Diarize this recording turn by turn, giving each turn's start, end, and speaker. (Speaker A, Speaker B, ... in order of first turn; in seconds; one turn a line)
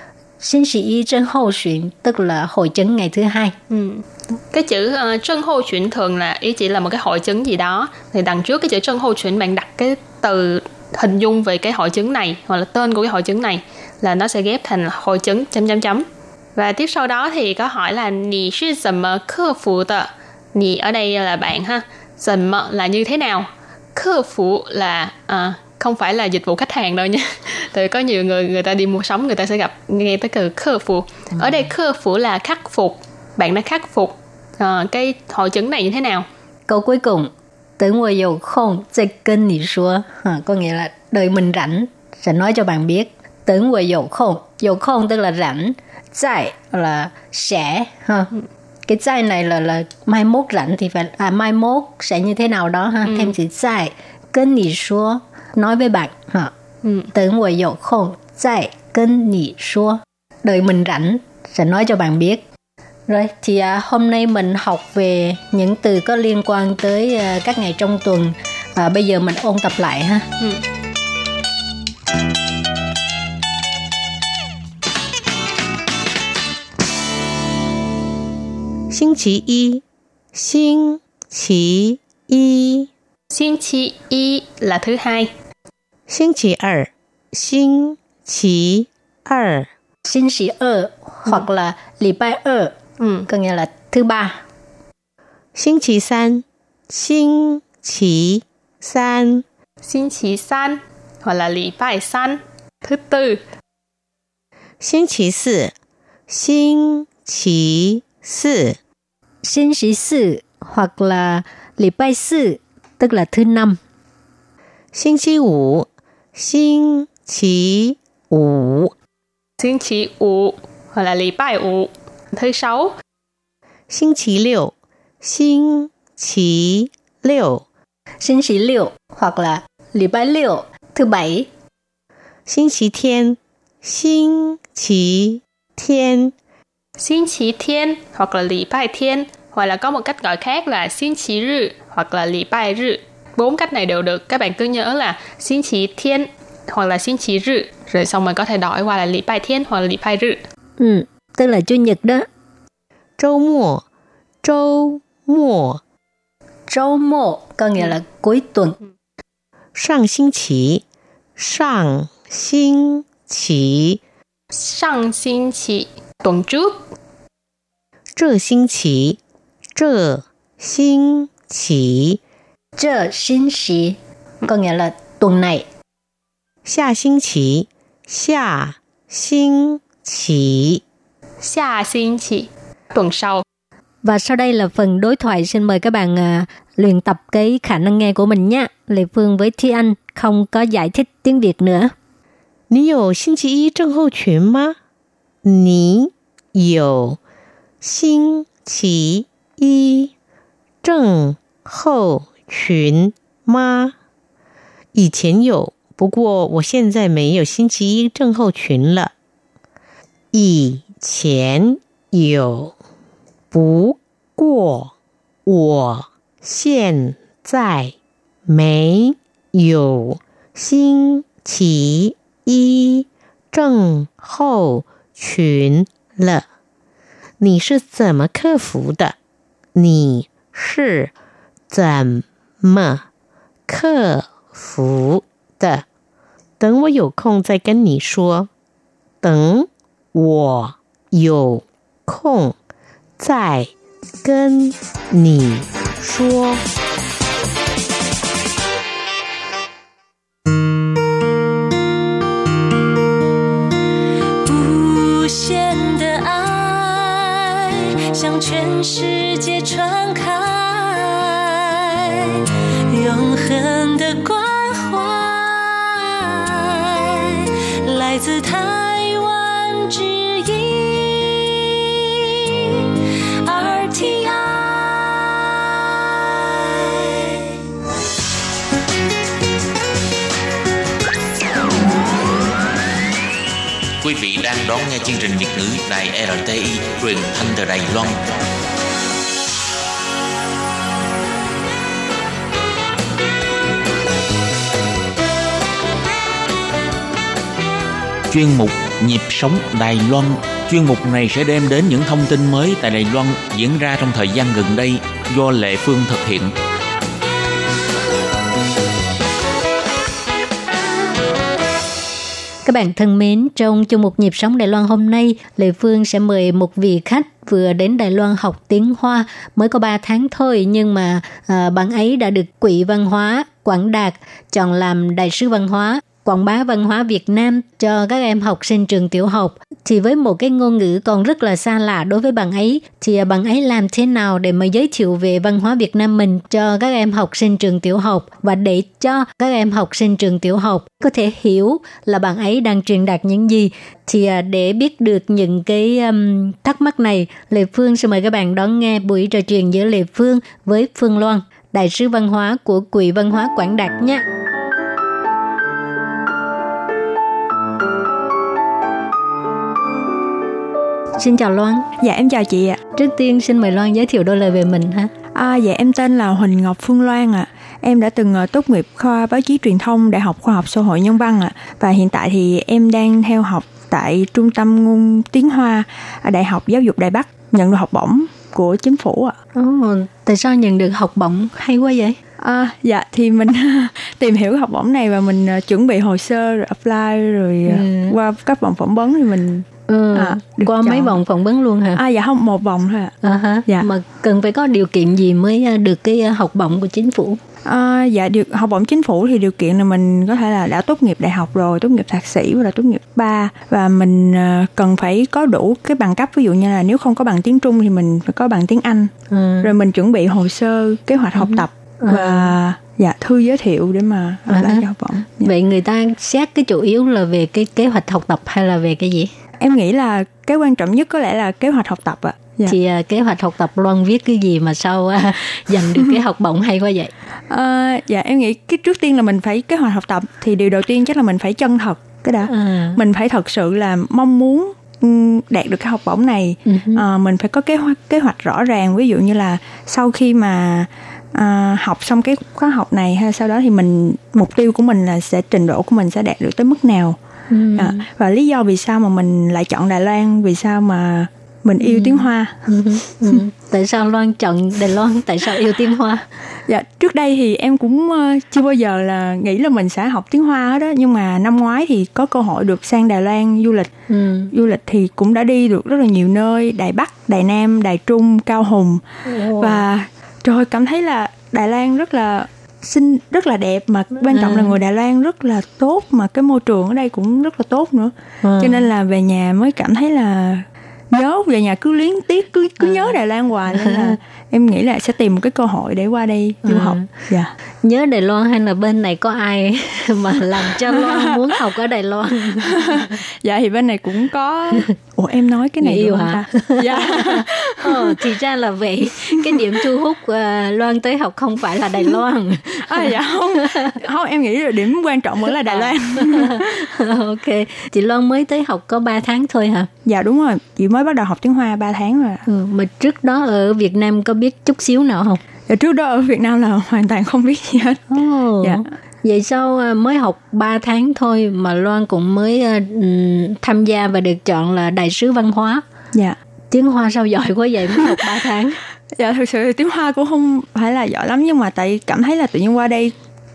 Speaker A: 0.4-3.5
Speaker B: 3.7-36.2
Speaker A: 36.7-48.3
Speaker A: 48.9-56.5
Speaker B: 53.0-53.3
Speaker B: 56.8-57.1
Speaker A: 57.1-62.4
Speaker A: 63.1-70.3
Speaker C: 78.9-79.8
Speaker C: 80.3-82.9
Speaker B: 83.3-85.3
Speaker C: 86.1-89.7
Speaker A: 90.0-92.7
Speaker B: 93.0-93.3
Speaker A: 93.3-94.4
Speaker C: 95.5-99.4
Speaker B: 99.8-103.4
Speaker C: 104.8-105.7
Speaker C: 106.3-108.8
Speaker A: 109.4-113.8
Speaker C: 114.9-118.9
Speaker B: 119.6-122.9
Speaker C: 123.9-127.6
Speaker A: 128.2-131.5
Speaker C: 132.5-136.3
Speaker B: 137.0-150.4
Speaker A: 150.8-152.3
Speaker C: 153.2-153.8
Speaker C: 154.4-155.8
Speaker A: 156.7-158.8
Speaker C: 159.7-160.8
Speaker C: 161.4-164.0
Speaker B: 164.5-166.8
Speaker C: 168.1-169.2
Speaker C: 169.7-172.2
Speaker A: 172.8-175.7
Speaker C: 176.6-180.8
Speaker B: 181.4-183.4
Speaker A: 184.0-191.9
Speaker C: 192.7-194.8
Speaker C: 195.4-197.2
Speaker C: 197.8-200.1
Speaker C: 200.8-203.9
Speaker C: 204.9-209.1
Speaker C: 210.3-212.7
Speaker C: 213.5-214.9
Speaker C: 215.4-217.9
Speaker C: 218.5-226.4
Speaker C: 227.4-229.2
Speaker C: 229.7-231.1
Speaker C: 231.7-233.0
Speaker C: 233.7-235.8
Speaker C: 236.6-238.5
Speaker C: 239.2-242.6
Speaker C: 243.2-243.7
Speaker C: 244.2-246.6
Speaker D: 254.4-257.6
Speaker D: 258.1-272.1
Speaker D: 273.4-276.0
Speaker D: 276.7-277.3
Speaker E: 284.0-288.3
Speaker E: 298.3-306.5
Speaker A: 312.6-354.2
Speaker A: 361.2-361.9
Speaker F: 362.0-362.8
Speaker A: 362.9-365.1
Speaker F: 365.3-379.4
Speaker A: 379.5-382.2
Speaker F: 382.4-391.2
Speaker A: 387.7-388.2
Speaker A: 389.9-392.0
Speaker F: 391.9-393.1
Speaker A: 393.2-397.4
Speaker F: 397.6-415.5
Speaker A: 409.3-409.7
Speaker A: 411.4-412.5
Speaker A: 414.5-414.8
Speaker A: 415.4-419.3
Speaker F: 419.6-422.8
Speaker A: 422.6-427.1
Speaker F: 427.5-447.2
Speaker A: 432.5-433.0
Speaker A: 436.6-437.0
Speaker A: 447.5-448.0
Speaker F: 447.8-452.7
Speaker A: 451.8-456.2
Speaker F: 456.7-463.9
Speaker A: 464.1-464.5
Speaker F: 464.5-487.5
Speaker A: 469.2-469.8
Speaker A: 474.3-474.7
Speaker A: 478.4-478.9
Speaker A: 482.8-483.1
Speaker A: 483.7-484.1
Speaker A: 486.6-487.1
Speaker A: 487.8-493.1
Speaker F: 490.9-491.4
Speaker F: 492.7-498.2
Speaker A: 495.8-503.9
Speaker F: 499.4-499.8
Speaker F: 502.8-506.8
Speaker A: 505.6-509.9
Speaker F: 510.1-512.4
Speaker A: 512.5-515.4
Speaker F: 515.7-518.1
Speaker A: 518.1-525.8
Speaker F: 518.6-518.9
Speaker A: 526.7-528.8
Speaker F: 529.1-533.1